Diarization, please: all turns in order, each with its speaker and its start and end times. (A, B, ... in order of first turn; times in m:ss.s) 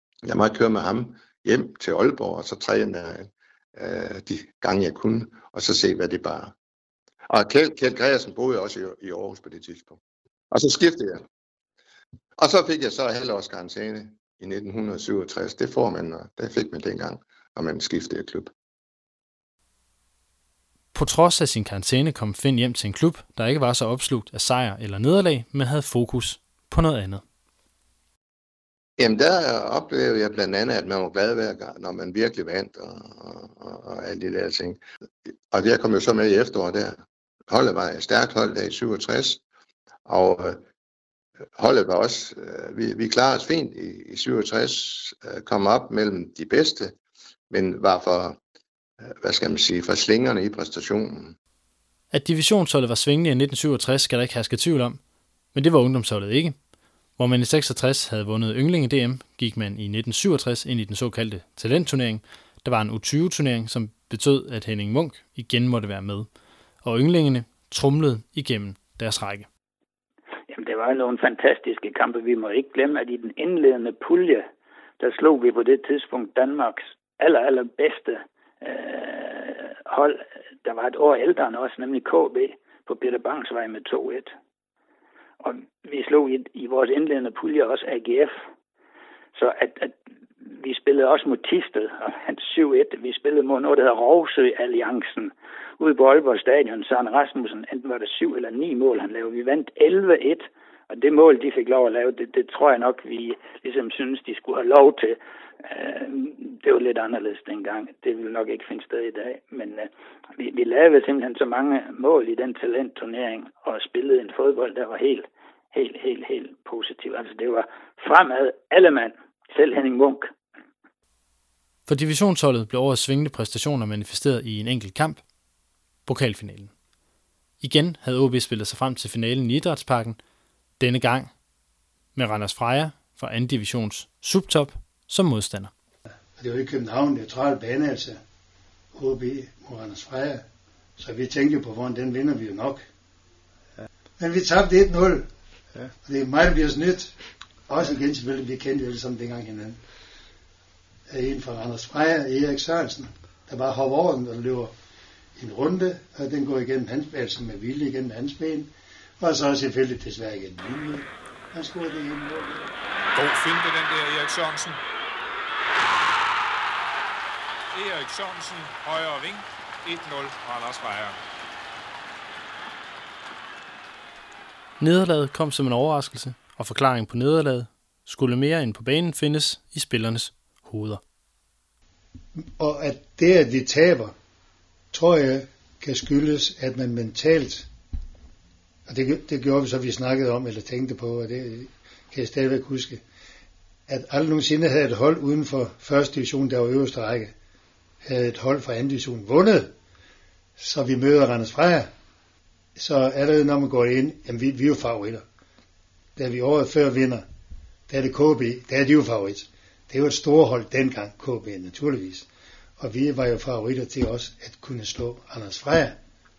0:00.2-0:06.5 A
0:07.3-0:10.0 A
0:10.5-0:11.2 A
0:12.4-0:18.5 A
0:20.9-0:27.2 B
0:29.0-0:34.8 A
0:35.5-0:39.4 A
0:40.1-0:40.6 A
0:41.6-0:47.0 A
0:47.5-0:48.4 A
0:49.1-0:51.4 A
0:52.1-0:55.0 B
0:55.5-0:56.6 B
0:57.2-1:06.3 B
1:06.8-1:09.5 B
1:10.5-1:14.5 C
1:15.0-1:24.3 C
1:25.4-1:28.4 C
1:29.4-2:00.3 C
2:01.9-2:05.2 B
2:06.1-2:06.7 B
2:07.6-2:10.2 B
2:10.8-2:11.3 B
2:12.2-2:15.7 B
2:16.4-2:18.2 D
2:18.9-2:20.4 D
2:21.0-2:22.8 D
2:24.2-2:25.3 D
2:26.0-2:27.2 D
2:27.7-2:29.8 D
2:31.1-2:34.7 D
2:35.4-2:42.7 D
2:43.2-2:44.8 E
2:47.7-2:51.2 E
2:54.8-3:01.0 B
3:02.6-3:04.1 D
3:04.9-3:07.7 D
3:08.9-3:13.0 D
3:13.9-3:17.3 D
3:18.0-3:19.7 D
3:20.6-3:21.9 D
3:22.8-3:25.2 D
3:26.2-3:27.3 D
3:27.9-3:32.3 D
3:32.8-3:36.0 D